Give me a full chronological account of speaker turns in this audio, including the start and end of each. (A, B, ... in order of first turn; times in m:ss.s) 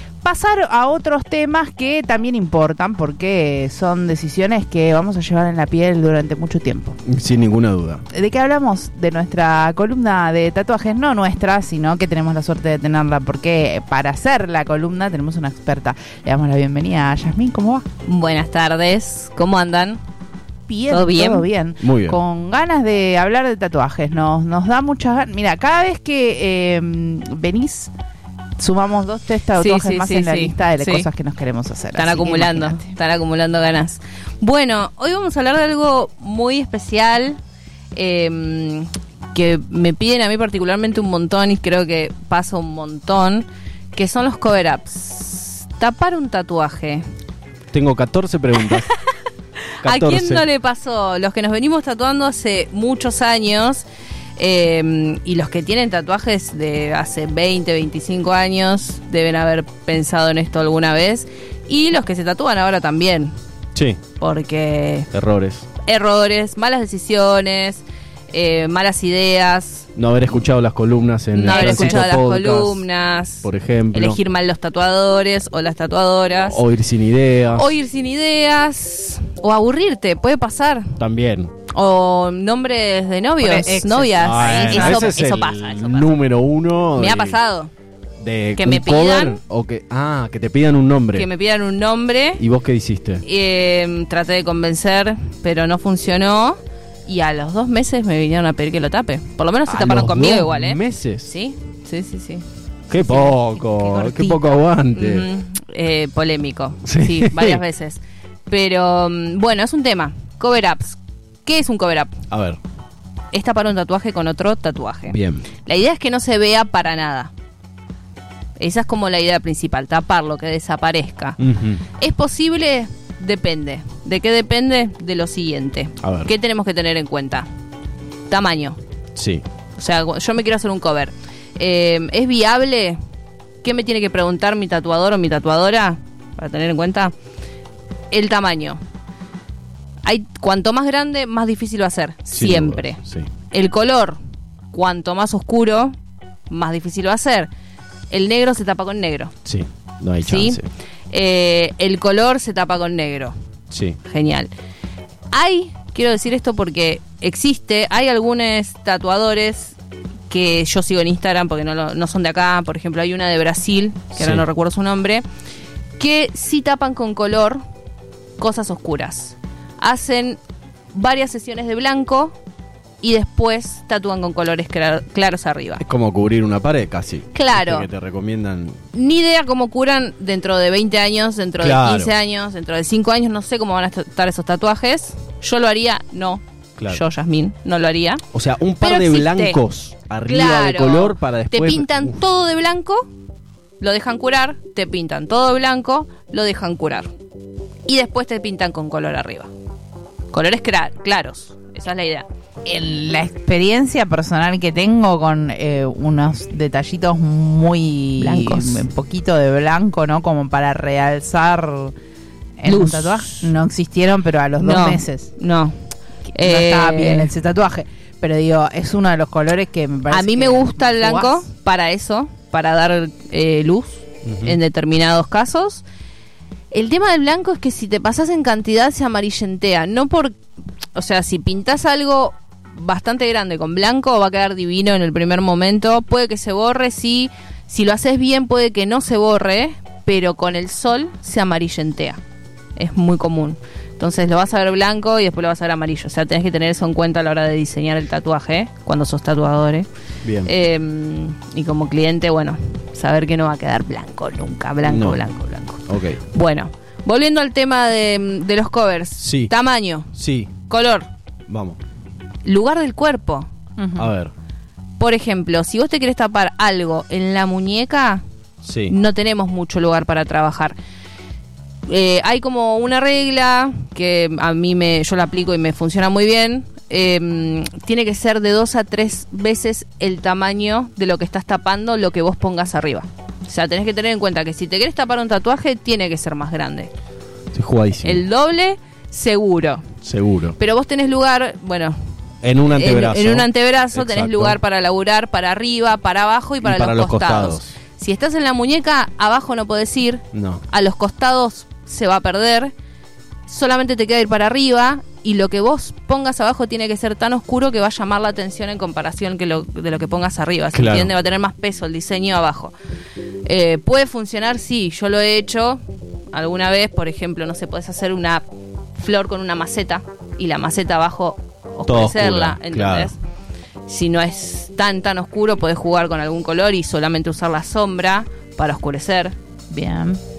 0:00.2-0:07.0 A
0:07.0-0:08.0 B
0:08.1-0:17.8 A
0:18.0-0:20.0 C
0:20.7-0:27.9 A
0:20.9-0:21.5 C
0:21.8-0:22.2 B
0:28.6-0:32.9 A
0:29.6-0:31.1 C
0:31.9-0:37.4 C
0:37.9-0:47.0 C
0:47.7-0:48.9 B
0:49.8-0:53.8 C
0:49.8-0:50.4 B
0:54.4-1:03.3 C
1:03.7-1:04.0 B
1:04.2-1:05.1 C
1:05.1-1:05.7 B
1:05.8-1:09.9 C
1:10.0-1:12.8 B
1:11.3-1:16.6 C
1:13.4-1:14.2 B
1:16.4-1:17.7 B
1:17.5-1:21.0 C
1:21.0-1:21.5 B
1:21.7-1:26.2 C
1:23.4-1:25.1 A
1:24.2-1:27.4 B
1:26.9-1:27.7 C
1:28.2-1:31.3 B
1:28.6-1:29.4 C
1:31.1-1:32.4 C
1:32.4-1:33.2 B
1:33.2-1:43.3 C
1:39.7-1:41.3 B
1:42.9-1:45.3 B
1:43.1-1:44.5 A
1:44.9-1:52.1 C
1:46.8-1:47.6 B
1:52.3-1:52.6 B
1:53.3-1:57.3 C
1:55.1-1:55.5 B
1:58.6-2:01.4 C
2:01.4-2:01.8 B
2:02.0-2:07.5 C
2:06.0-2:06.3 B
2:08.3-2:08.8 C
2:09.2-2:09.4 B
2:09.8-2:13.0 C
2:13.6-2:17.1 C
2:18.1-2:18.8 C
2:20.0-2:24.2 C
2:22.3-2:23.3 B
2:24.7-2:25.9 C
2:26.5-2:27.5 C
2:28.1-2:29.3 C
2:29.4-2:30.6 B
2:30.2-2:33.3 C
2:33.7-2:34.0 B
2:34.0-2:34.5 C
2:35.3-2:39.8 C
2:40.3-2:45.2 C
2:44.2-2:44.4 B
2:46.0-2:47.6 C
2:48.4-2:50.4 C
2:50.9-2:52.3 C
2:53.0-2:55.8 C
2:55.8-2:58.8 B
2:57.3-2:57.9 C
2:58.9-3:08.2 C
3:01.6-3:02.1 B
3:08.3-3:12.2 B
3:08.8-3:09.6 C
3:10.2-3:13.1 C
3:13.8-3:17.1 C
3:17.8-3:19.5 C
3:20.3-3:22.2 C
3:22.6-3:31.9 A
3:28.2-3:28.8 C
3:32.6-3:35.3 A
3:32.6-3:33.5 C
3:34.6-3:35.7 C
3:36.3-3:41.4 A
3:36.3-3:37.3 C
3:40.1-3:45.8 C
3:44.2-3:44.6 B
3:46.7-3:50.4 C
3:50.9-4:02.2 C
4:02.8-4:09.9 C
4:10.2-4:10.5 B
4:10.4-4:20.1 C
4:14.8-4:15.2 B
4:15.9-4:16.2 B
4:19.2-4:19.5 B
4:20.1-4:20.5 B
4:20.7-4:21.1 C
4:21.5-4:21.8 B
4:22.4-4:23.5 C
4:23.8-4:24.1 A
4:24.0-4:24.3 B
4:25.0-4:28.2 C
4:28.6-4:28.9 B
4:28.9-4:30.8 C
4:31.9-4:46.9 C
4:47.5-4:48.2 B
4:48.0-4:49.9 C
4:50.0-4:50.6 B
4:50.6-4:51.9 C
4:52.4-4:54.6 B
4:52.7-5:02.7 C
4:56.6-4:57.7 B
5:00.3-5:00.6 B
5:03.5-5:12.7 C
5:10.7-5:11.1 B
5:13.4-5:18.4 C
5:19.0-5:23.2 C
5:21.9-5:23.1 B
5:23.9-5:29.3 C
5:29.7-5:30.2 A